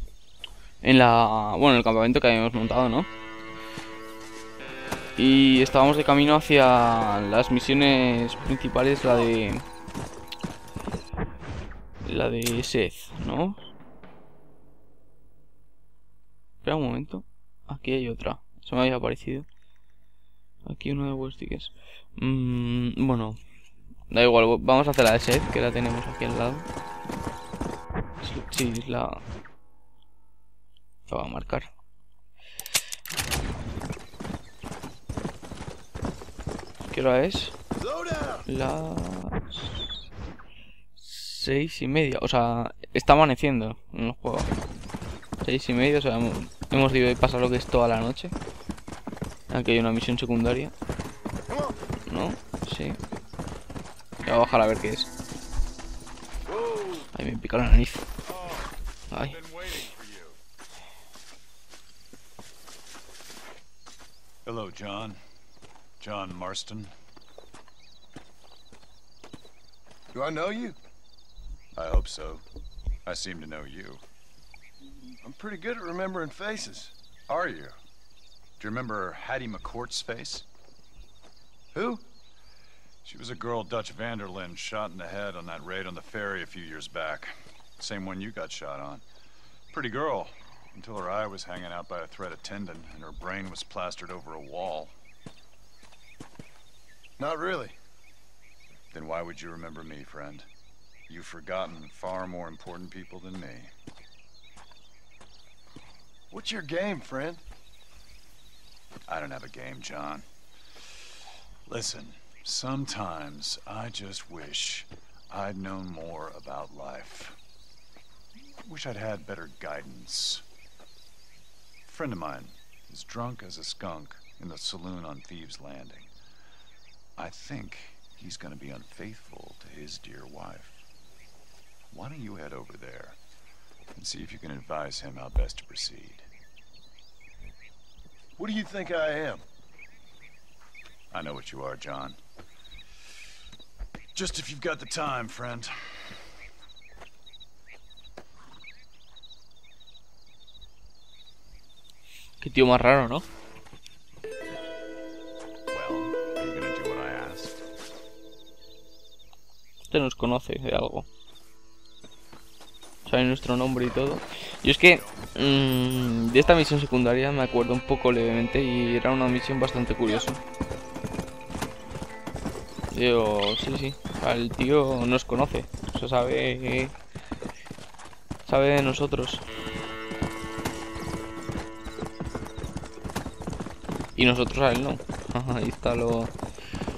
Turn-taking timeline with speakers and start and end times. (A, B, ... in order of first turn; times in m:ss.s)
0:00.8-0:03.1 A
0:05.2-0:09.6 A
0:12.0-0:13.6 A
0:16.6-0:19.5 A
0:20.6-0:23.4 A
0:24.1-0:26.7 A
0:28.2-0:29.2 A
0:31.1-0:31.7 A
0:36.9-0:37.6 A
0:37.8-0:38.5 B
0:38.5-0:39.7 A
0:41.0-0:44.5 A
0:45.4-0:48.3 A
0:49.5-0:50.7 A
0:51.5-0:51.8 B
0:52.1-0:53.0 A
0:54.2-0:55.1 A
0:56.5-0:57.1 B
0:57.1-0:58.1 A
0:58.4-0:58.6 C
0:59.1-0:59.4 A
0:59.3-1:00.4 C
1:04.4-1:05.2 C
1:06.0-1:06.9 C
1:10.1-1:10.8 B
1:11.8-1:12.4 C
1:13.1-1:14.0 C
1:15.2-1:16.9 B
1:17.3-1:17.8 C
1:18.6-1:20.5 C
1:21.7-1:22.0 B
1:23.0-1:29.0 C
1:29.7-1:34.9 C
1:37.2-1:37.7 B
1:38.9-1:40.5 C
1:41.1-1:43.7 C
1:46.3-1:47.4 B
1:49.1-1:50.3 C
1:51.7-1:57.4 C
1:58.6-2:00.4 C
2:01.8-2:06.1 C
2:07.2-2:10.8 C
2:11.9-2:13.2 C
2:14.0-2:16.3 C
2:18.4-2:19.4 B
2:21.1-2:22.2 C
2:24.2-2:26.2 C
2:32.4-2:33.3 A
2:35.7-2:37.6 C
2:39.9-2:41.1 A
2:43.1-2:50.4 A
2:52.9-2:56.9 A
2:58.5-2:59.4 A
3:04.2-3:06.3 A